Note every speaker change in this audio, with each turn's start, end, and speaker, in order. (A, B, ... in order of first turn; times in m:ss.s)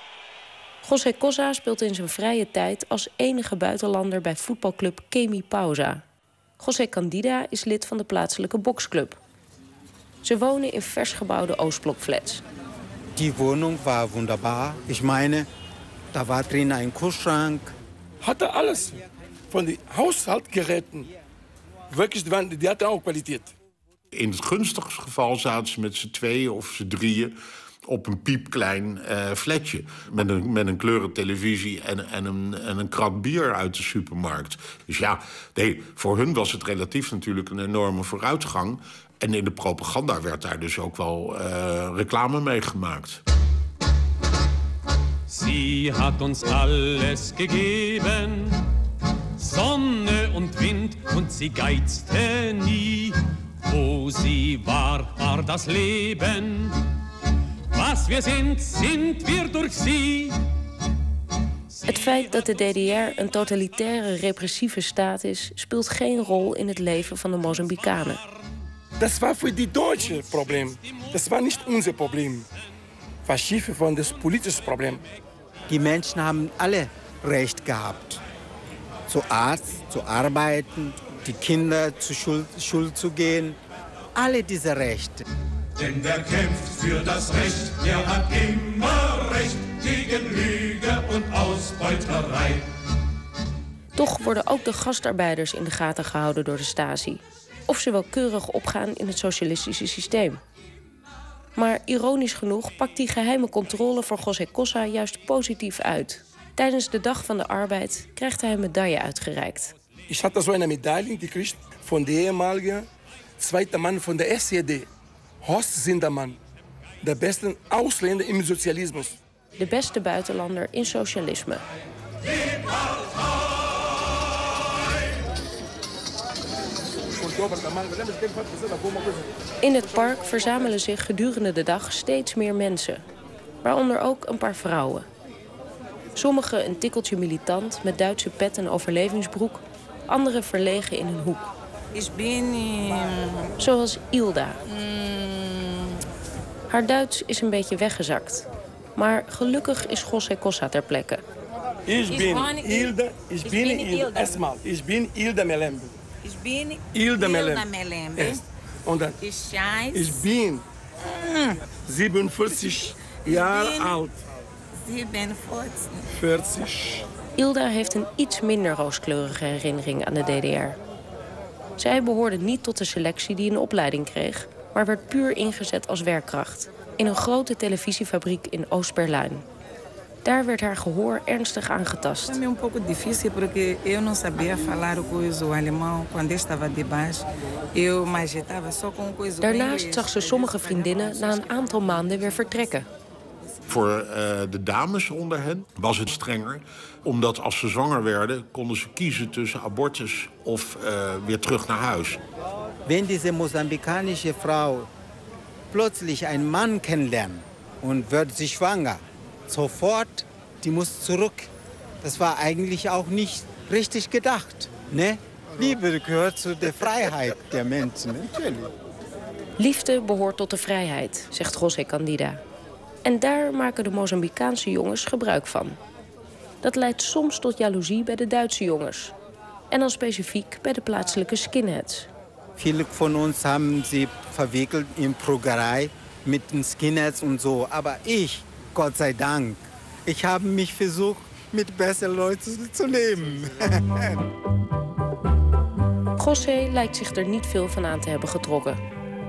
0:00.8-0:06.0 A
0:06.6-0:09.2 A
0:10.2-0:12.4 A
0:13.2-0:15.5 B
0:16.1-0:17.7 B
0:18.2-0:21.1 C
0:21.9-0:23.5 C
0:24.1-0:43.2 D
0:45.3-0:48.6 E
0:49.4-0:56.8 E
0:57.7-1:00.4 E
1:01.9-1:08.2 A
1:09.0-1:12.5 C
1:13.2-1:15.1 C
1:15.7-1:18.2 B
1:19.1-1:23.6 B
1:24.2-1:25.2 B
1:25.8-1:32.7 E
1:34.0-1:40.4 A
1:41.6-1:49.8 A
1:50.1-1:52.9 C
1:53.4-1:54.9 C
1:55.4-1:56.4 C
1:57.0-1:59.2 C
1:59.6-2:01.6 A
2:07.1-2:09.3 C
2:09.6-2:13.0 A
2:13.6-2:15.1 A
2:16.2-2:21.5 A
2:22.0-2:23.5 F
2:23.6-2:24.6 A
2:24.7-2:26.0 F
2:26.7-2:31.2 A
2:31.9-2:36.0 C
2:32.1-2:34.4 F
2:36.2-2:38.4 F
2:36.9-2:39.2 C
2:39.2-2:40.2 F
2:39.9-2:40.6 C
2:41.2-2:41.6 F
2:41.8-2:44.2 C
2:43.1-2:44.0 F
2:44.8-2:46.1 F
2:46.1-2:47.1 C
2:47.4-2:50.8 A
2:51.8-2:59.5 A
3:00.2-3:02.4 A
3:02.3-3:12.6 F
3:09.4-3:12.9 A
3:13.7-3:22.2 D
3:22.9-3:24.9 B
3:25.7-3:38.7 B
3:39.6-3:42.4 A
3:43.0-3:45.8 A
3:46.6-3:49.1 A
3:49.7-3:52.1 A
3:52.6-4:04.2 B
4:06.2-4:08.8 A